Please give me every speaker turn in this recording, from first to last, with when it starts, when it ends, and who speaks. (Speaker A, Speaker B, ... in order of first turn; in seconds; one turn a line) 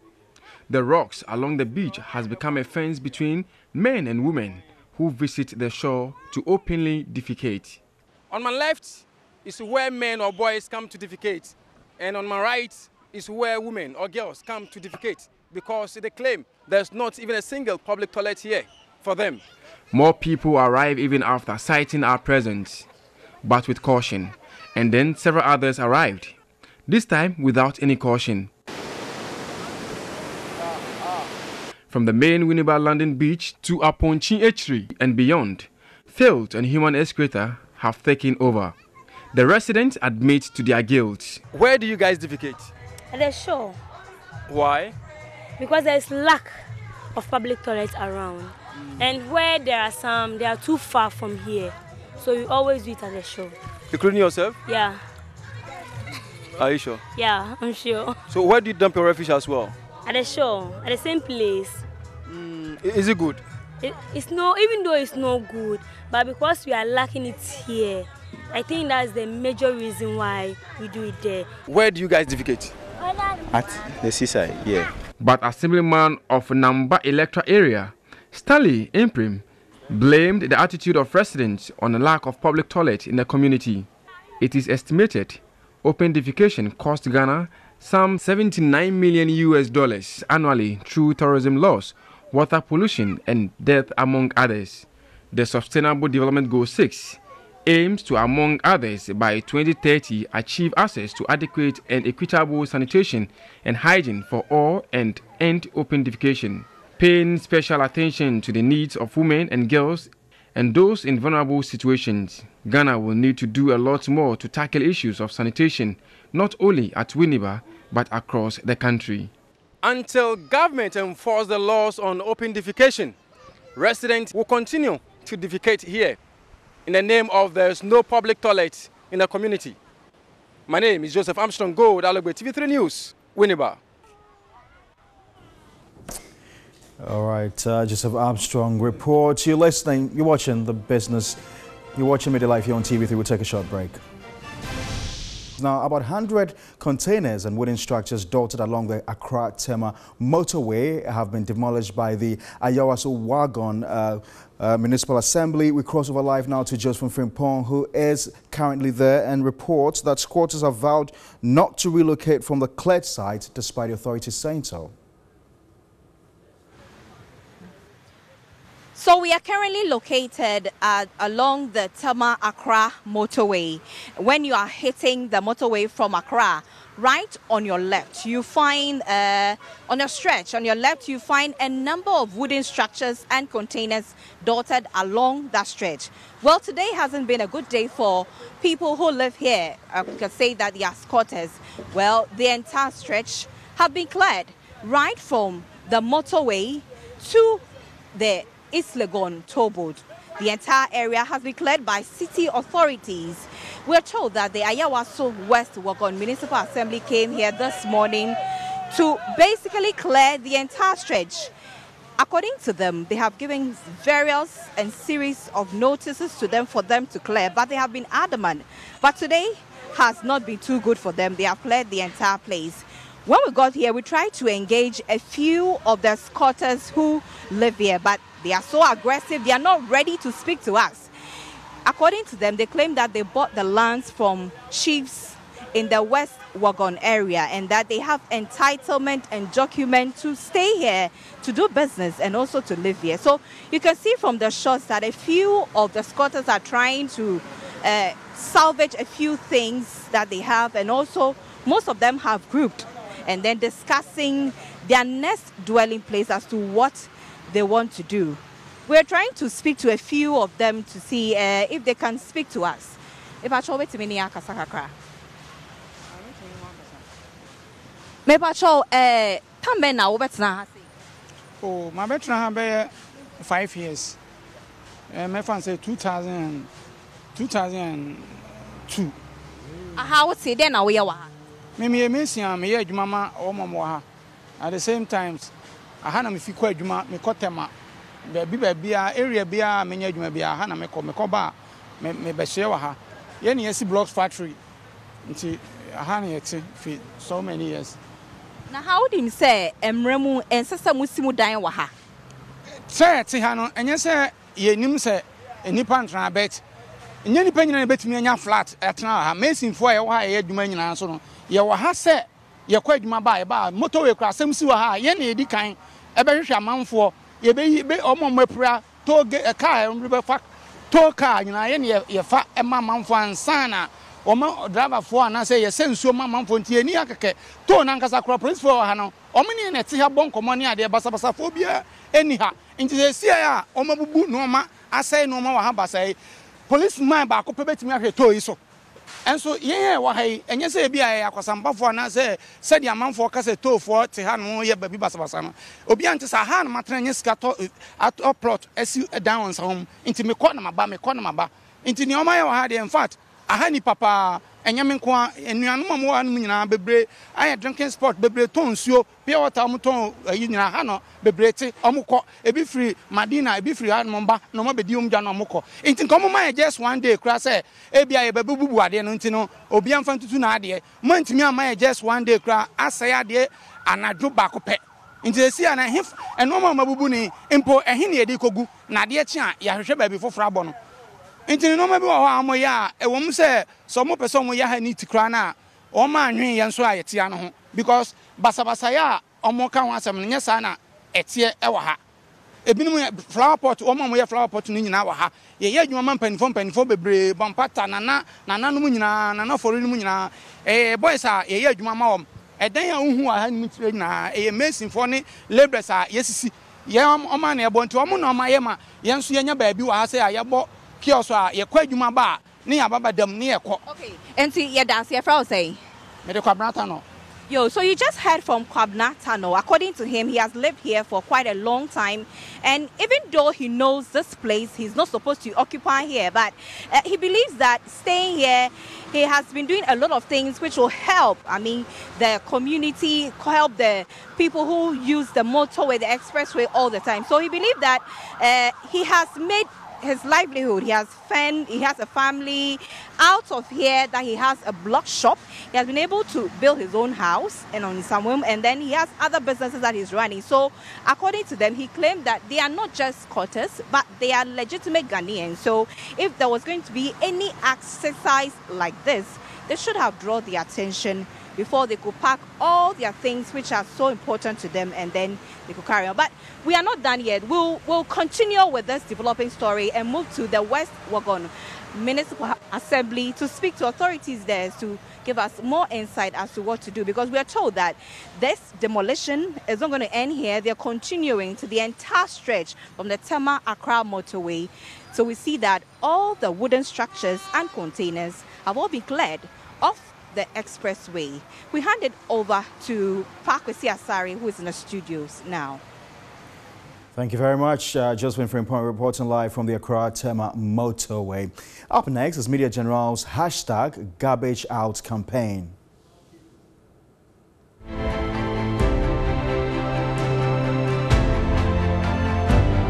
Speaker A: 0.7-7.8
Speaker B: 8.3-19.4
Speaker A: 19.9-22.9
Speaker A: 23.4-26.4
Speaker A: 26.9-28.5
Speaker A: 31.9-38.7
Speaker A: 39.3-41.4
Speaker B: 41.5-42.7
Speaker C: 43.1-43.8
Speaker B: 44.5-45.0
Speaker C: 45.6-46.5
Speaker C: 47.1-53.5
Speaker B: 53.9-54.6
Speaker C: 54.6-55.0
Speaker B: 56.6-57.0
Speaker C: 57.1-58.2
Speaker B: 58.3-59.7
Speaker C: 60.0-61.8
Speaker B: 62.3-63.4
Speaker C: 63.8-71.5
Speaker B: 71.7-72.7
Speaker B: 73.5-74.9
Speaker A: 75.2-83.9
Speaker A: 84.4-119.3
Speaker B: 119.8-123.2
Speaker B: 123.8-126.2
Speaker B: 126.8-129.8
Speaker B: 130.7-133.8
Speaker D: 137.0-141.4
Speaker D: 141.9-144.0
Speaker D: 145.6-164.9
Speaker E: 168.9-197.6
Speaker E: 198.1-208.4
Speaker E: 208.9-211.5
Speaker E: 212.2-231.1
Speaker E: 231.8-264.9
Speaker E: 268.2-270.8
Speaker F: 271.6-274.2
Speaker F: 275.1-276.7
Speaker F: 277.4-279.1
Speaker E: 279.9-281.3
Speaker F: 281.8-284.0
Speaker F: 284.6-285.5
Speaker F: 286.0-287.7
Speaker F: 288.3-294.6
Speaker F: 295.2-298.0
Speaker E: 298.7-301.9
Speaker F: 302.9-306.6
Speaker F: 307.2-336.1
Speaker F: 336.7-338.6
Speaker F: 339.2-380.7
Speaker F: 381.5-392.0
Speaker F: 392.6-413.8
Speaker E: 413.9-415.8
Speaker F: 416.2-417.0
Speaker E: 417.5-495.8
Speaker D: 497.1-505.8